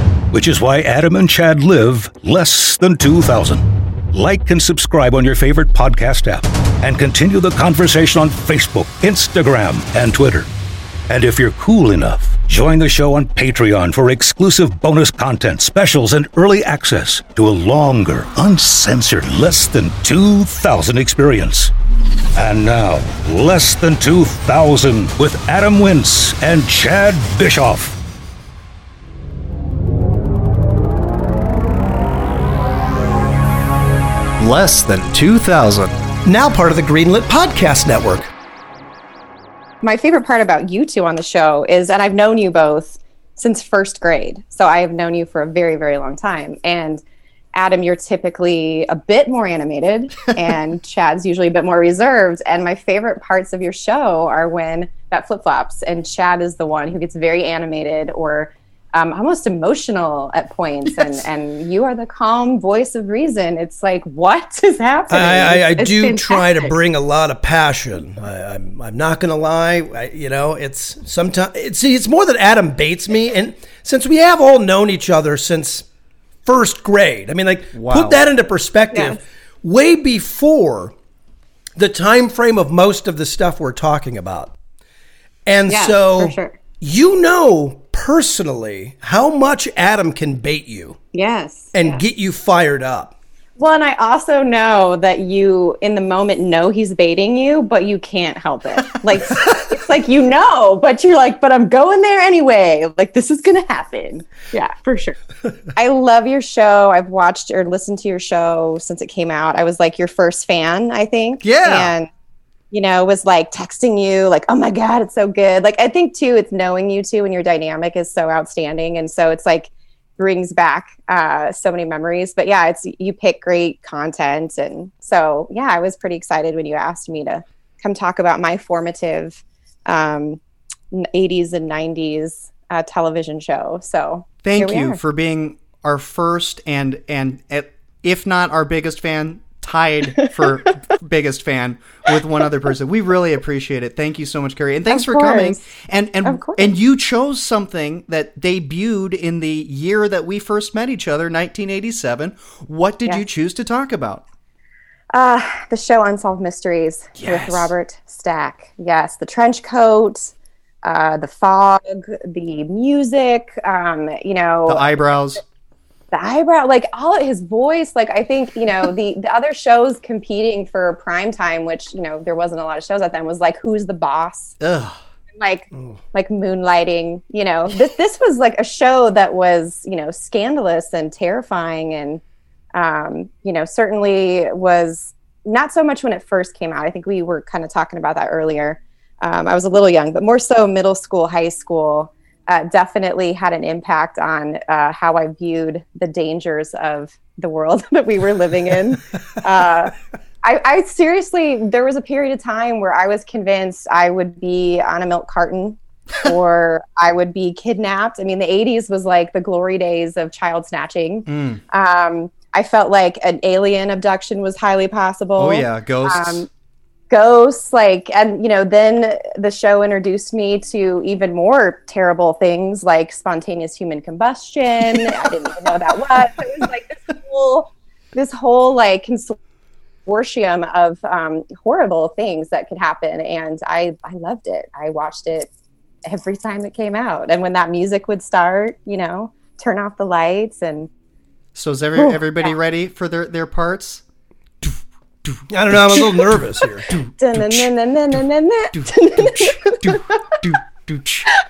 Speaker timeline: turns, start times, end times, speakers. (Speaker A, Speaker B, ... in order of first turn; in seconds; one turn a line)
Speaker A: 0.3-10.5
Speaker A: 11.1-21.7
Speaker A: 22.3-28.0
Speaker B: 34.4-35.9
Speaker C: 36.3-38.3
Speaker D: 39.8-47.0
Speaker D: 47.5-66.7
Speaker C: 65.1-75.8
Speaker C: 76.5-80.9
Speaker B: 77.7-78.2
Speaker D: 78.9-79.2
Speaker C: 81.8-84.5
Speaker C: 85.5-91.0
Speaker D: 85.7-86.6
Speaker D: 91.1-92.0
Speaker C: 91.7-93.1
Speaker D: 93.6-105.2
Speaker D: 105.8-112.1
Speaker B: 111.4-111.9
Speaker D: 112.7-130.4
Speaker D: 130.9-135.0
Speaker B: 134.4-154.2
Speaker D: 144.9-145.6
Speaker D: 146.2-146.7
Speaker D: 155.1-160.3
Speaker B: 157.2-157.7
Speaker D: 160.8-164.9
Speaker B: 164.7-165.4
Speaker D: 166.1-174.6
Speaker B: 174.6-175.0
Speaker D: 175.4-182.2
Speaker D: 182.7-216.5
Speaker B: 211.3-211.6
Speaker B: 215.4-216.5
Speaker D: 217.1-229.4
Speaker B: 224.9-226.3
Speaker D: 230.1-235.5
Speaker D: 236.1-240.9
Speaker B: 241.6-244.0
Speaker D: 242.0-242.5
Speaker B: 244.6-248.2
Speaker C: 245.5-246.9
Speaker D: 247.2-250.0
Speaker B: 248.7-251.3